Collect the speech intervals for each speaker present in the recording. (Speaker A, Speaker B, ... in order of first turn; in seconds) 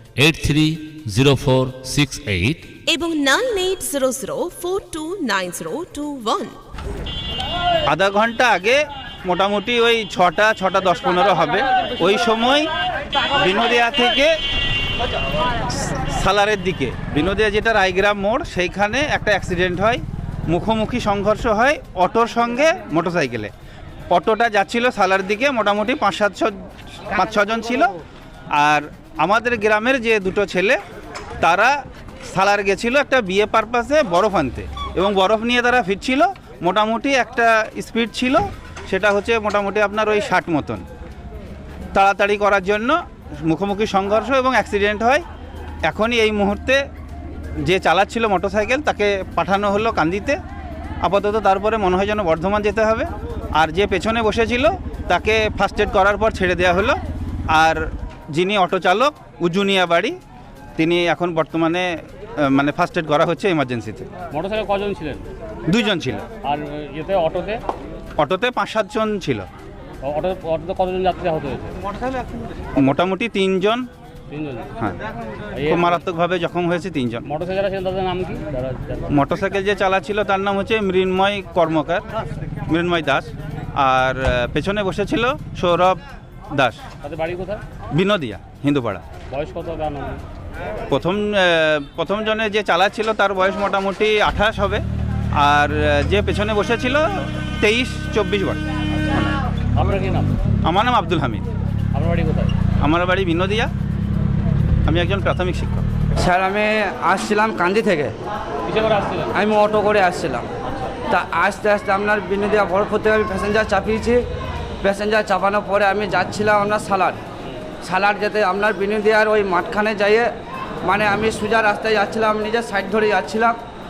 Speaker A: 0.2-2.7
Speaker B: 2.9-6.5
Speaker C: 7.9-12.7, 13.4-14.3, 15.9-23.5, 24.1-26.6, 27.1-27.9, 28.6-30.8, 31.4-31.7, 32.3-40.8, 42.0-45.2, 45.9-46.8, 47.7-50.4, 51.0-57.0, 57.5-60.2, 60.8-61.9, 62.5-64.1, 65.7-66.3, 68.2-69.5, 72.8-73.8, 75.7-77.2, 79.1-82.0, 82.7-86.0, 86.6-86.8, 87.9-89.0, 90.9-94.8, 95.4-98.6, 100.7-101.4, 102.8-103.7, 104.9-105.8
Speaker D: 64.3-65.2, 66.5-67.6, 70.0-71.8, 74.3-74.7, 75.6-76.0, 77.3-79.1, 87.0-87.6, 89.3-90.2, 99.8-100.3, 102.0-102.5, 108.7-109.3
Speaker E: 106.2-108.1, 109.3-110.5, 111.1-114.2, 114.8-117.2, 117.8-120.3, 120.8-123.6